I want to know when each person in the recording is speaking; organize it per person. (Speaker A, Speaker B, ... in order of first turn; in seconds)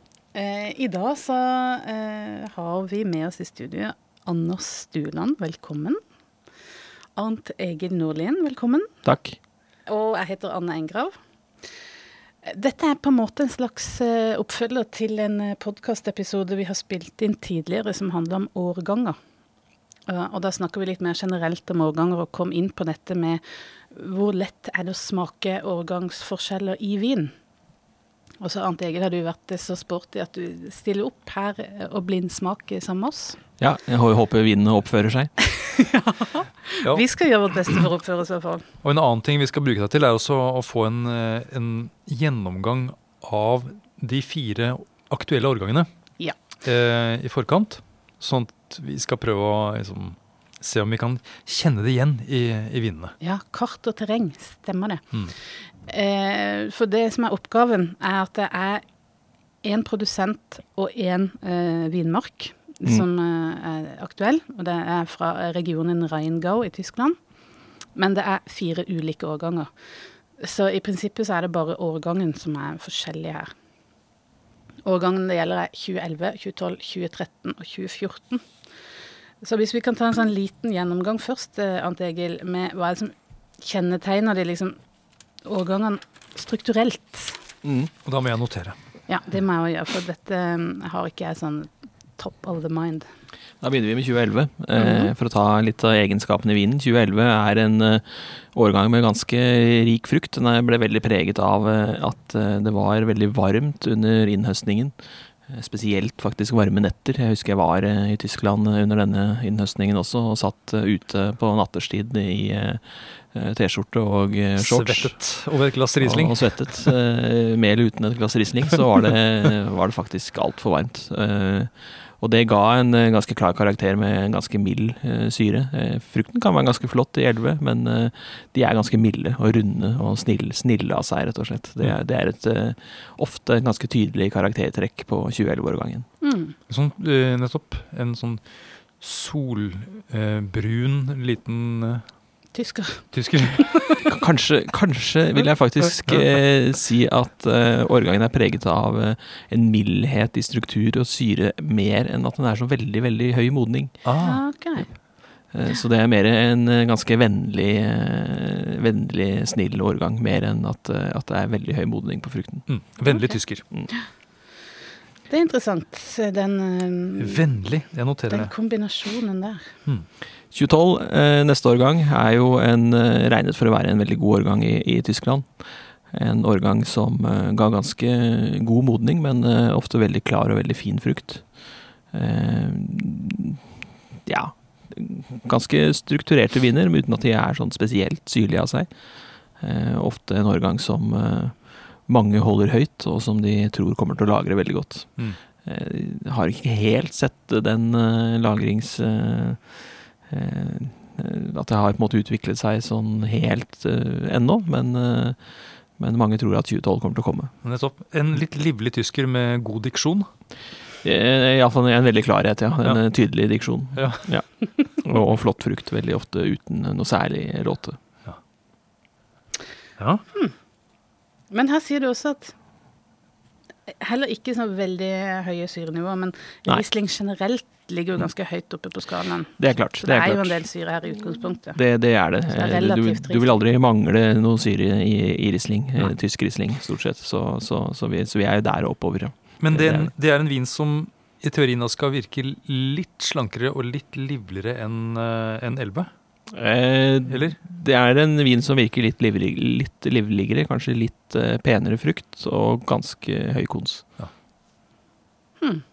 Speaker A: 0.3-6.0, 7.2-8.9, 9.9-11.2, 12.4-19.2, 20.1-27.3, 28.4-33.4, 35.5-38.6, 53.2-58.8, 59.6-67.2, 67.9-73.5, 74.8-78.6, 79.4-84.8, 85.4-87.4, 89.1-93.1, 94.8-95.1, 136.2-136.5, 142.5-144.0, 154.2-155.5, 163.1-163.4, 165.3-167.6, 168.3-169.7, 221.5-222.5, 223.9-231.8, 232.4-233.5
Speaker B: 9.0-9.4, 33.6-35.3, 87.6-87.9, 93.6-115.4, 116.0-136.1, 144.1-154.0, 155.5-162.8, 170.5-183.7, 184.2-207.5, 211.0-218.0, 229.6-230.7, 231.7-240.1, 246.5-254.1
Speaker C: 38.8-45.9, 46.6-53.1, 88.0-88.8, 114.6-116.9, 136.7-142.3, 143.1-143.9, 146.1-146.3, 154.0-154.5, 162.7-163.6, 167.2-168.5, 207.6-210.3, 212.8-214.3, 220.0-220.2, 239.6-246.1, 247.3-247.6